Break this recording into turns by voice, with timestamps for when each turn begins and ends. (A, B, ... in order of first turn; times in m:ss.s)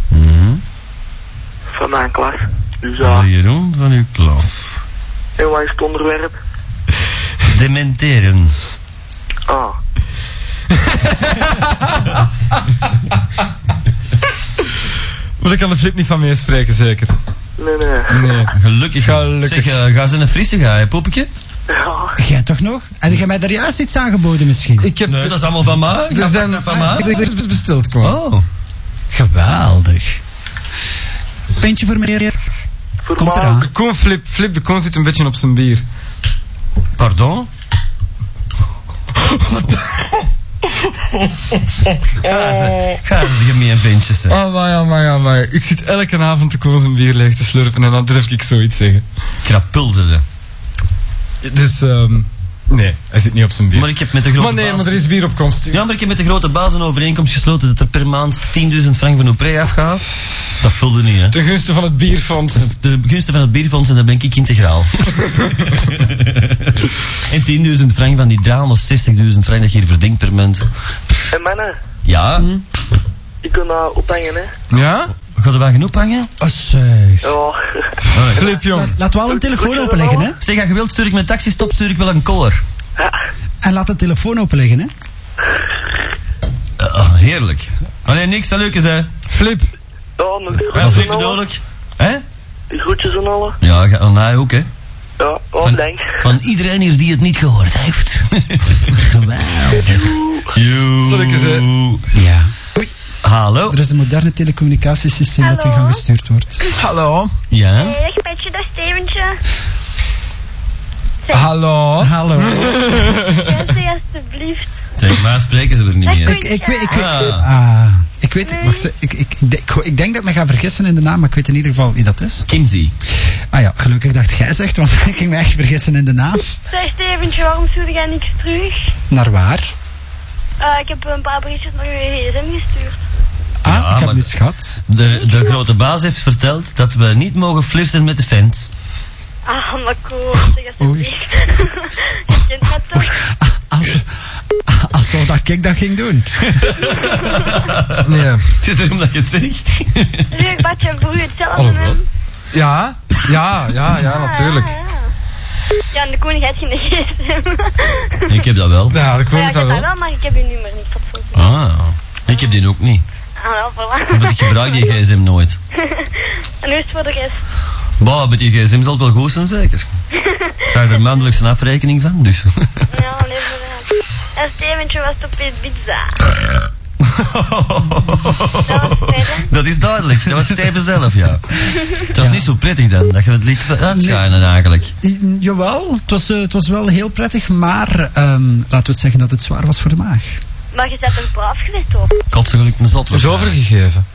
0:00.1-0:00.6 A
0:01.7-0:03.3 B
0:03.0-0:04.8 A
0:05.4-0:06.3 B
0:07.4-0:08.5 A
0:09.5-0:09.8 B
0:10.8-0:12.2 C
0:15.4-0:17.1 C
0:17.6-0:18.4 B
0:18.1-0:19.8 C
0:18.5-0:21.3 A
0:21.7-0:22.1 B
0:22.2-0:24.9 D
0:24.8-0:25.5 C
0:25.0-0:27.3 A
0:26.1-0:28.2 C
0:28.0-0:28.4 A
0:29.1-0:30.2 D
0:31.6-0:32.4 D
0:33.1-0:33.6 B
0:33.2-0:33.7 D
0:33.6-0:35.8 C
0:37.0-0:37.5 A
0:39.2-0:42.2 C
0:42.2-0:44.4 A
0:42.5-0:42.9 B
0:44.3-0:49.0 C
0:49.4-0:50.2 A
0:51.4-0:55.8 C
0:53.7-0:55.1 A
0:55.7-1:00.0 A
1:00.6-1:01.4 A
1:01.3-1:02.7 C
1:02.5-1:10.7 A
1:11.3-1:11.7 B
1:12.0-1:12.5 A
1:13.4-1:14.5 B
1:14.7-1:15.1 C
1:15.3-1:16.3 A
1:16.4-1:17.3 D
1:17.2-1:18.0 B
1:18.1-1:18.5 A
1:18.3-1:19.0 C
1:18.5-1:20.4 D
1:19.4-1:20.3 B
1:20.4-1:22.6 A
1:23.0-1:23.2 B
1:23.6-1:24.9 D
1:26.8-1:29.1 A
1:29.3-1:29.7 C
1:30.2-1:31.4 B
1:30.7-1:32.2 A
1:30.8-1:31.1 C
1:32.7-1:33.6 B
1:33.6-1:34.7 A
1:35.2-1:36.3 B
1:35.6-1:42.1 A
1:39.8-1:40.4 B
1:41.0-1:41.6 C
1:42.1-1:42.7 D
1:43.2-1:43.8 A
1:43.7-1:46.6 D
1:45.4-1:46.0 E
1:46.8-1:47.4 C
1:47.5-1:48.0 A
1:47.8-1:49.4 E
1:51.2-1:51.5 E
1:51.3-1:53.7 C
1:52.0-1:52.9 D
1:53.3-1:54.7 E
1:55.0-1:57.5 A
1:56.0-1:57.1 E
1:56.2-2:02.4 D
1:58.4-1:58.9 E
2:02.5-2:02.9 A
2:03.5-2:06.5 D
2:06.7-2:08.9 E
2:09.1-2:09.7 D
2:10.6-2:13.0 E
2:13.6-2:14.8 D
2:13.6-2:14.3 A
2:14.9-2:18.7 A
2:15.0-2:15.6 E
2:19.4-2:23.2 E
2:20.8-2:21.1 D
2:22.9-2:26.7 D
2:26.4-2:30.3 A
2:27.2-2:27.5 E
2:28.0-2:28.5 C
2:30.3-2:32.0 E
2:31.5-2:32.0 C
2:32.5-2:34.7 C
2:34.0-2:35.1 E
2:35.9-2:38.4 E
2:38.3-2:39.0 A
2:38.9-2:39.9 C
2:39.3-2:41.5 E
2:41.3-2:43.0 A
2:42.3-2:42.6 E
2:43.4-2:45.0 E
2:44.1-2:45.6 A
2:45.8-2:47.4 E
2:48.0-2:49.8 A
2:50.2-2:51.2 E
2:50.7-2:52.9 A
2:52.9-2:56.2 E
2:57.0-3:04.9 A
2:58.7-2:59.5 E
3:01.6-3:02.0 E
3:02.1-3:02.5 D
3:03.9-3:04.2 D
3:05.0-3:10.4 D
3:10.7-3:12.2 E
3:12.3-3:13.6 A
3:13.1-3:14.0 C